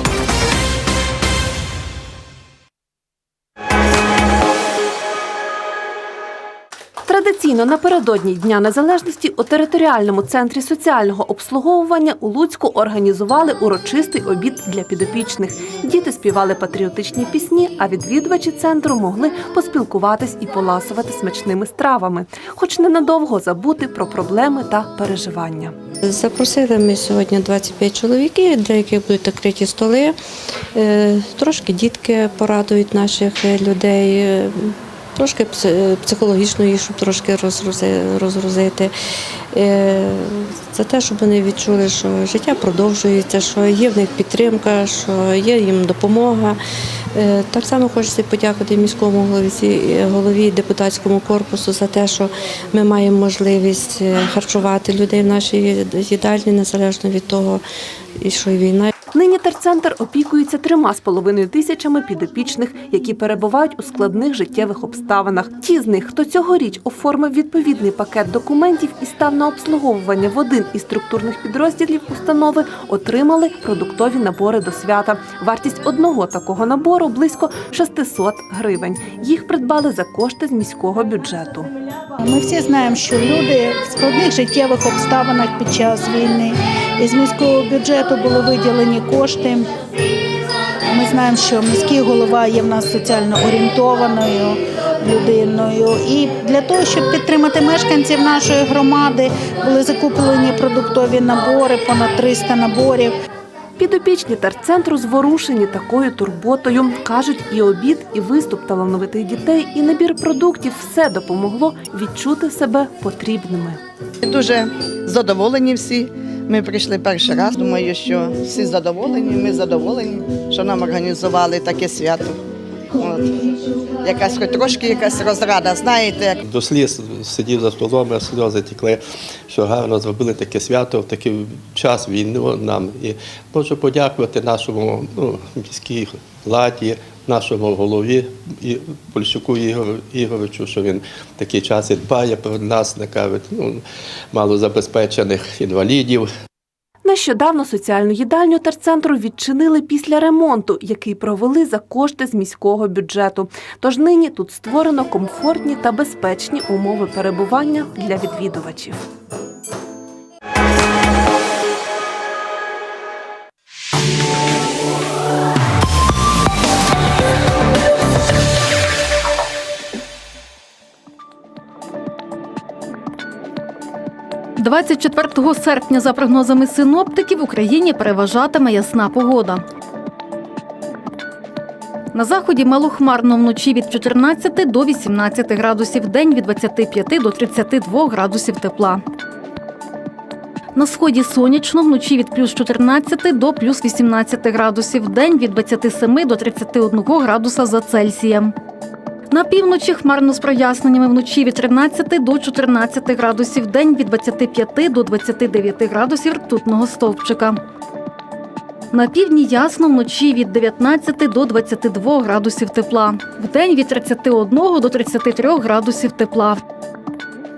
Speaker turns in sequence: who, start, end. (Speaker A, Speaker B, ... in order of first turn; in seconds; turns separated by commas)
Speaker A: 7.1-25.8, Speaker B: 26.0-30.2, Speaker B: 30.7-38.9, Speaker B: 39.5-46.6, Speaker B: 47.1-57.6, Speaker B: 58.2-58.9, Speaker A: 59.1-81.7, Speaker C: 82.2-89.7, Speaker C: 90.9-103.1, Speaker A: 103.8-113.8, Speaker D: 114.2-122.4, Speaker D: 123.0-126.4, Speaker E: 126.5-146.3, Speaker A: 147.0-159.1, Speaker F: 174.6-179.6, Speaker F: 182.1-189.0, Speaker F: 190.8-198.6, Speaker F: 199.3-207.6, Speaker F: 208.9-216.6